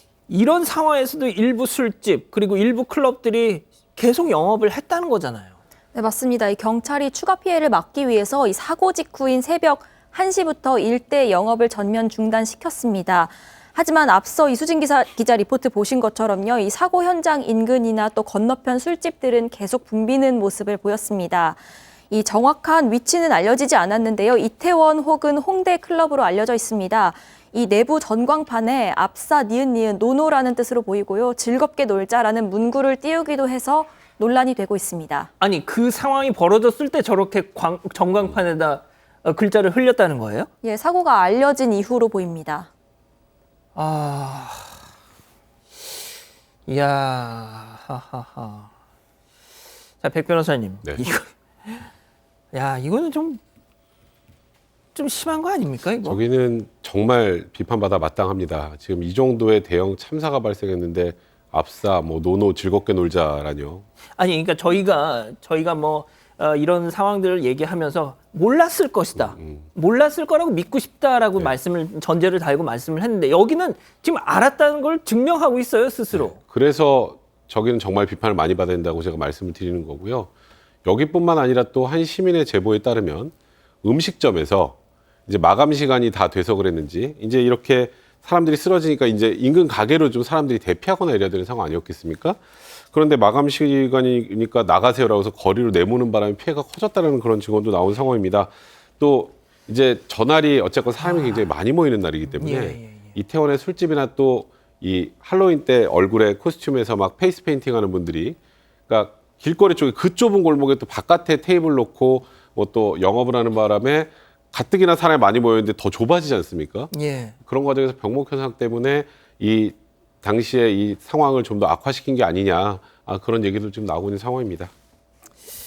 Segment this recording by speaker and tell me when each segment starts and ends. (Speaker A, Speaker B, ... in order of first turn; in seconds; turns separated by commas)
Speaker A: 0.3-5.5, Speaker B: 5.9-35.3, Speaker A: 35.4-40.5, Speaker B: 40.6-42.7, Speaker A: 43.7-44.8, Speaker A: 46.7-48.7, Speaker A: 50.0-51.9, Speaker A: 52.5-53.4, Speaker A: 54.9-56.2, Speaker C: 56.0-63.8, Speaker A: 64.2-76.4, Speaker C: 69.3-69.6, Speaker C: 76.1-80.3, Speaker C: 80.8-108.4, Speaker A: 101.0-101.5, Speaker A: 102.2-103.2, Speaker C: 108.9-116.9, Speaker A: 116.9-117.3, Speaker C: 117.5-124.7